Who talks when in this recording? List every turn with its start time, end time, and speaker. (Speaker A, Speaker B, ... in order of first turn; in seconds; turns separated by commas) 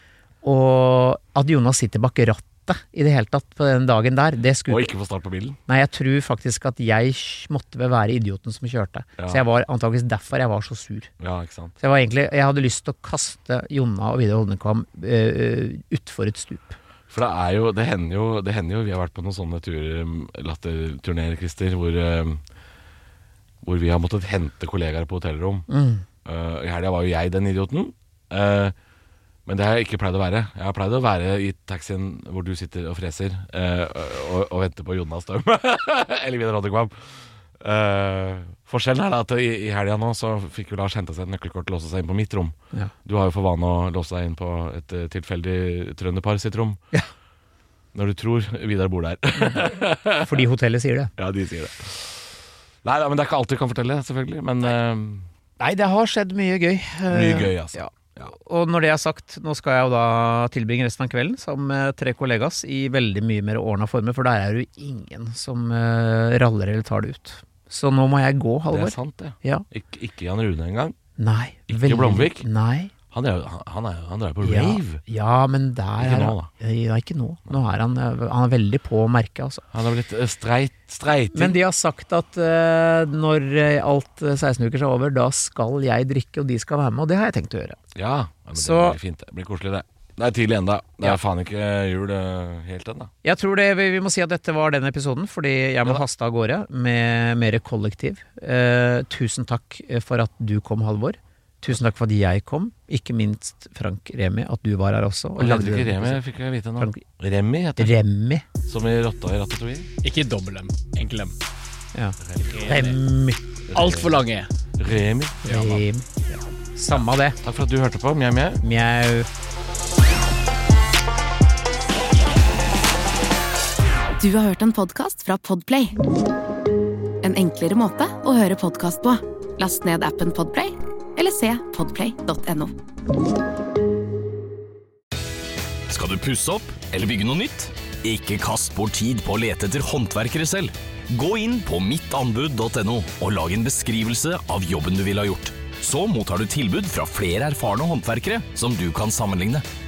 Speaker A: 0.4-4.9, Speaker B: 4.7-5.6, Speaker A: 5.7-11.1, Speaker B: 11.2-11.7, Speaker A: 11.8-16.8, Speaker B: 17.1-22.4, Speaker B: 23.6-25.7, Speaker A: 25.7-26.0, Speaker B: 26.2-28.7, Speaker B: 29.4-46.8, Speaker B: 47.9-50.4, Speaker A: 49.4-49.7, Speaker A: 50.2-51.1, Speaker B: 51.2-52.2, Speaker B: 52.8-55.3, Speaker A: 55.6-69.6, Speaker B: 57.1-58.3, Speaker B: 68.7-71.0, Speaker A: 71.2-72.9, Speaker B: 71.7-72.5, Speaker B: 73.1-75.0, Speaker A: 74.4-79.7, Speaker B: 76.0-76.5, Speaker B: 79.7-81.6, Speaker A: 81.3-87.8, Speaker B: 87.9-93.1, Speaker A: 88.5-89.0, Speaker A: 93.2-106.2, Speaker B: 105.4-108.0, Speaker A: 106.8-107.0, Speaker A: 107.8-108.5, Speaker B: 108.7-109.9, Speaker C: 110.0-111.3, Speaker A: 111.9-113.4, Speaker B: 112.2-112.6, Speaker C: 112.4-113.0, Speaker B: 113.7-114.1, Speaker C: 113.7-114.5, Speaker B: 114.8-115.5, Speaker C: 115.4-115.8, Speaker A: 115.4-117.4, Speaker B: 116.9-118.6, Speaker A: 118.6-119.3, Speaker D: 124.2-126.0, Speaker D: 127.2-132.7, Speaker E: 135.9-149.6